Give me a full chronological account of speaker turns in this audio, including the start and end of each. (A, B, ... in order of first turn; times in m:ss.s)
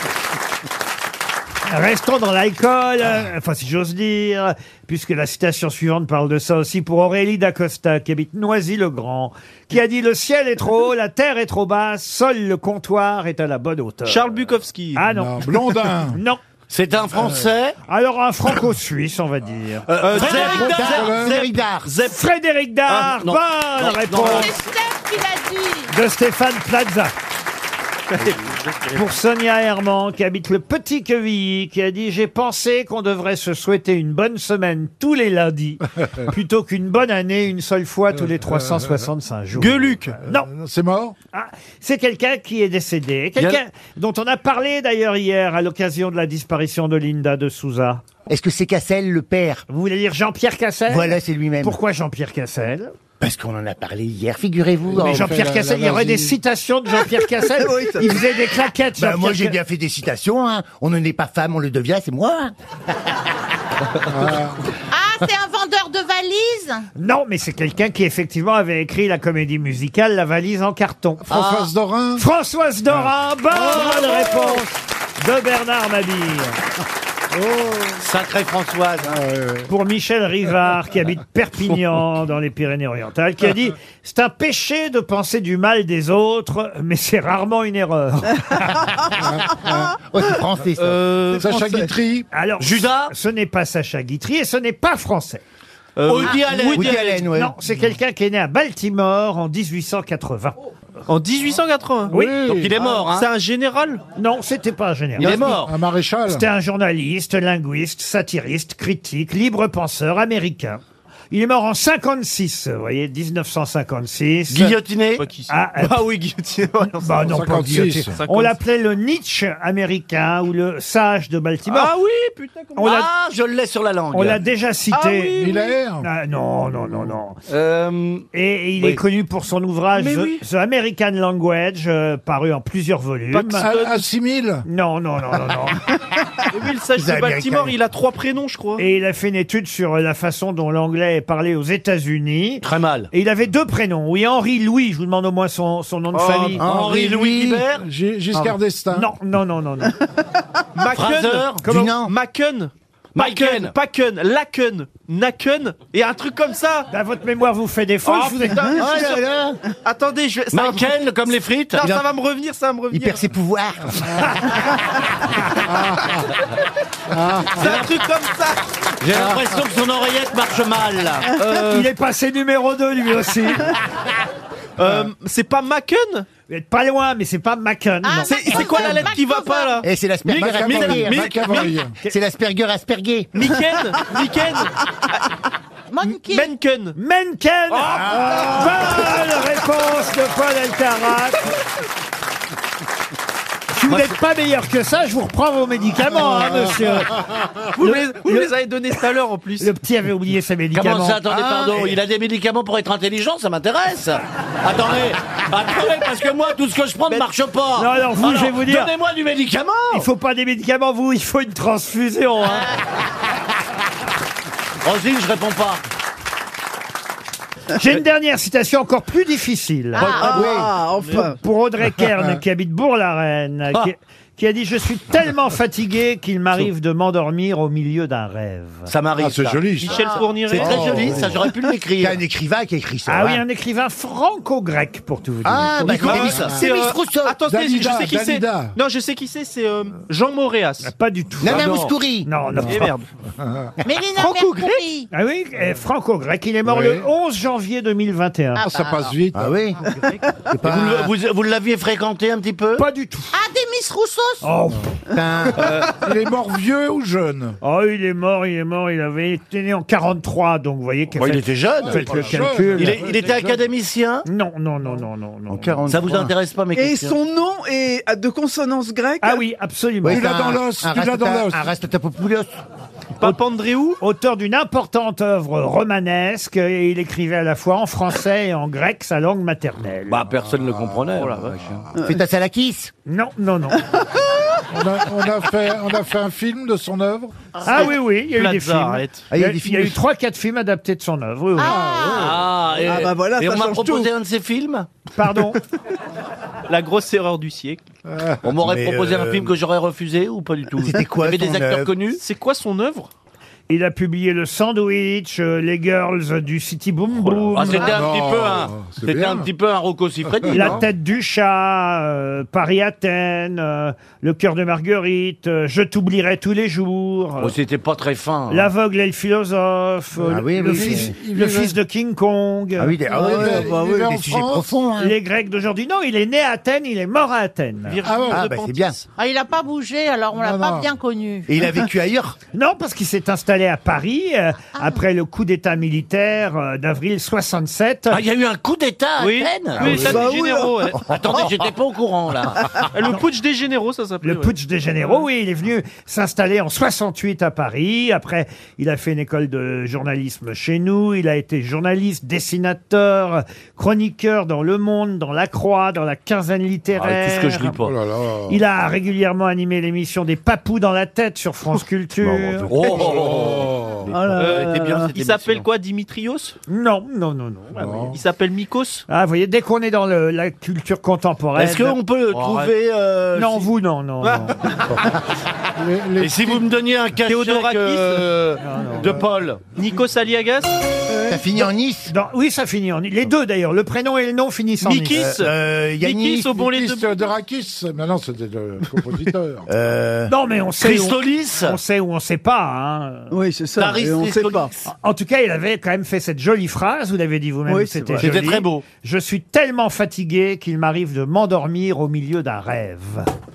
0:01.6-0:14.3 A
0:14.1-0:15.0 B
0:15.0-0:16.4 A
0:15.0-0:16.2 C
0:16.7-0:17.7 D
0:17.1-0:17.4 C
0:17.9-0:20.2 A
0:19.9-0:22.2 D
0:20.0-0:21.0 B
0:20.1-0:21.9 E
0:20.2-0:21.4 C
0:22.0-0:24.5 A
0:22.9-0:24.6 D
0:24.2-0:25.9 F
0:25.9-0:27.1 A
0:28.9-0:40.5 A
0:38.2-0:39.0 C
0:39.6-0:40.2 B
0:40.3-0:41.1 C
0:41.3-0:48.0 A
0:48.3-0:49.6 E
0:49.7-0:52.9 A
0:50.9-0:51.8 E
0:53.2-0:55.3 E
0:54.9-0:56.4 C
0:55.0-0:59.6 A
0:57.6-0:58.1 G
0:59.0-1:02.5 E
1:04.1-1:04.6 C
1:04.9-1:06.8 F
1:07.0-1:11.2 A
1:11.2-1:12.2 C
1:11.3-1:11.7 D
1:12.2-1:16.6 A
1:12.9-1:14.7 C
1:17.3-1:18.0 C
1:18.0-1:19.2 D
1:19.1-1:19.7 C
1:19.7-1:29.0 A
1:29.1-1:29.8 C
1:29.6-1:31.2 E
1:30.8-1:31.6 B
1:31.4-1:32.3 C
1:32.3-1:35.4 A
1:32.6-1:33.1 D
1:36.0-1:37.2 B
1:36.0-1:37.1 D
1:36.2-1:37.5 E
1:37.3-1:40.6 A
1:41.1-1:42.1 B
1:42.1-1:42.8 C
1:42.1-1:42.3 A
1:42.4-1:43.3 D
1:42.8-1:44.0 B
1:44.2-1:45.7 A
1:45.2-1:45.7 D
1:45.2-1:46.4 C
1:46.2-1:54.8 A
1:54.5-1:55.2 D
1:55.2-1:57.3 B
1:55.5-1:56.0 A
1:56.8-2:01.9 A
1:57.2-1:58.2 C
1:58.2-1:58.6 B
2:01.6-2:02.8 B
2:02.8-2:03.1 A
2:02.8-2:04.4 D
2:04.1-2:05.5 A
2:04.9-2:05.8 B
2:05.4-2:06.0 C
2:06.0-2:07.4 A
2:07.5-2:08.2 D
2:08.3-2:13.7 A
2:09.9-2:10.4 B
2:13.3-2:14.0 B
2:13.6-2:14.6 C
2:14.6-2:15.8 A
2:16.5-2:18.8 B
2:17.0-2:17.8 E
2:18.8-2:26.6 A
2:22.6-2:23.1 D
2:26.1-2:26.6 B
2:26.6-2:27.6 E
2:26.6-2:27.8 D
2:26.8-2:29.1 C
2:28.9-2:30.0 A
2:30.8-2:36.9 B
2:30.9-2:31.6 D
2:31.6-2:31.9 A
2:31.6-2:32.1 E
2:33.1-2:33.7 D
2:36.9-2:38.9 A
2:38.0-2:39.2 B
2:38.8-2:39.6 E
2:39.8-2:43.2 B
2:40.5-2:41.9 D
2:42.9-2:44.2 E
2:45.7-2:46.0 C
2:47.1-2:47.8 C
2:47.5-2:48.6 B
2:49.0-2:51.4 D
2:49.1-2:49.4 C
2:51.4-2:53.7 A
2:54.8-2:56.3 B
2:54.8-2:55.1 C
2:56.5-2:58.5 A
2:58.0-2:59.8 F
2:58.3-3:01.8 B
2:58.6-2:59.1 C
2:59.8-3:01.3 E
3:00.3-3:02.0 C
3:02.1-3:03.4 E
3:03.3-3:05.2 B
3:05.9-3:06.5 F
3:06.0-3:07.0 B
3:07.0-3:11.4 A
3:07.7-3:08.2 B
3:08.1-3:08.5 E
3:13.7-3:17.1 A
3:13.9-3:14.2 D
3:16.3-3:17.4 C
3:17.8-3:19.7 B
3:17.8-3:18.5 A
3:19.6-3:21.2 A
3:20.7-3:30.1 D
3:21.3-3:22.0 E
3:27.8-3:28.9 A
3:29.9-3:32.6 A
3:34.8-3:35.8 D
3:37.7-3:40.4 A
3:39.9-3:40.6 F
3:40.2-3:41.4 G
3:40.2-3:40.7 E
3:40.9-3:41.2 B
3:41.1-3:48.9 A
3:48.9-3:52.2 D
3:49.2-3:50.0 C
3:49.8-3:51.2 B
3:50.0-3:50.4 F
3:50.5-3:51.3 E
3:50.6-3:51.4 C
3:52.0-3:53.4 E
3:53.1-3:56.3 A
3:55.4-3:57.4 E
3:55.8-3:56.6 D
3:56.0-4:00.9 B
3:56.1-3:56.7 C
3:57.4-3:58.7 C
4:00.8-4:02.9 A
4:01.4-4:02.3 E
4:01.4-4:01.9 B
4:02.7-4:03.0 B
4:03.4-4:03.7 C
4:03.8-4:05.1 F
4:04.1-4:04.8 B
4:05.1-4:08.6 A
4:06.6-4:07.0 C
4:08.6-4:09.1 F
4:08.7-4:09.6 C
4:09.3-4:09.8 E
4:09.9-4:10.3 B
4:10.5-4:11.1 E
4:10.6-4:12.8 D
4:12.8-4:13.4 A
4:13.3-4:14.5 F
4:14.4-4:14.9 A
4:15.1-4:15.8 E
4:15.6-4:17.6 C
4:17.6-4:23.0 A
4:21.2-4:24.2 D
4:21.8-4:23.7 C
4:24.2-4:25.8 A
4:25.5-4:26.3 E
4:25.9-4:27.2 D
4:26.7-4:29.4 G
4:29.2-4:30.3 A
4:30.0-4:32.5 E
4:30.1-4:31.6 C
4:33.2-4:34.0 B
4:34.0-4:40.2 A
4:40.1-4:41.8 D
4:40.4-4:41.9 C
4:41.9-4:42.2 G
4:42.0-4:42.9 E
4:43.1-4:43.9 A
4:44.7-4:47.4 C
4:47.6-4:47.9 F
4:47.6-4:51.8 A
4:47.7-4:49.2 B
4:49.3-4:50.0 E
4:51.6-4:52.4 F
4:51.6-4:52.4 C
4:52.2-4:54.9 D
4:52.8-4:54.1 G
4:55.1-4:55.6 A
4:56.7-4:57.8 B
4:58.1-4:58.4 C
4:58.4-5:02.2 D
4:58.6-4:59.5 E
5:00.8-5:01.9 E
5:02.2-5:03.1 B
5:03.7-5:07.9 A
5:07.5-5:10.8 D
5:07.7-5:09.5 C
5:10.2-5:10.8 C
5:10.5-5:17.5 A
5:17.4-5:18.7 D
5:18.5-5:23.0 A
5:20.2-5:21.1 E
5:20.5-5:21.7 C
5:22.8-5:25.1 E
5:23.1-5:24.7 C
5:23.2-5:24.1 G
5:25.0-5:28.0 A
5:27.8-5:29.0 B
5:28.0-5:28.4 C
5:28.3-5:29.0 E
5:29.2-5:31.5 F
5:30.3-5:30.9 C
5:31.5-5:32.4 E
5:32.5-5:38.2 A
5:38.1-5:40.4 D
5:39.2-5:41.4 B
5:39.8-5:41.0 G
5:41.0-5:42.8 D
5:42.9-5:44.5 B
5:44.2-5:57.7 A
5:57.0-5:57.9 D
5:57.6-5:58.6 C
5:58.5-6:02.7 A
6:02.2-6:03.4 E
6:02.7-6:03.7 D
6:02.7-6:04.2 C
6:04.1-6:05.1 G
6:04.2-6:05.0 E
6:04.4-6:06.6 B
6:04.4-6:05.6 D
6:06.7-6:08.2 A
6:07.7-6:08.2 C
6:08.1-6:09.0 B
6:09.1-6:12.0 A
6:11.6-6:13.7 D
6:12.3-6:12.7 B
6:13.3-6:14.6 A
6:14.2-6:15.0 B
6:14.9-6:15.2 C
6:15.8-6:16.7 C
6:16.2-6:19.6 D
6:17.2-6:18.3 B
6:18.6-6:19.2 A
6:19.7-6:20.7 B
6:21.3-6:22.1 E
6:22.1-6:25.3 A
6:24.8-6:27.3 B
6:25.1-6:26.6 E
6:26.6-6:29.7 C
6:29.7-6:30.3 E
6:30.3-6:33.3 A
6:30.8-6:31.8 D
6:33.3-6:34.7 G
6:33.8-6:34.8 D
6:34.8-6:43.3 A
6:37.7-6:38.4 G
6:38.2-6:38.8 D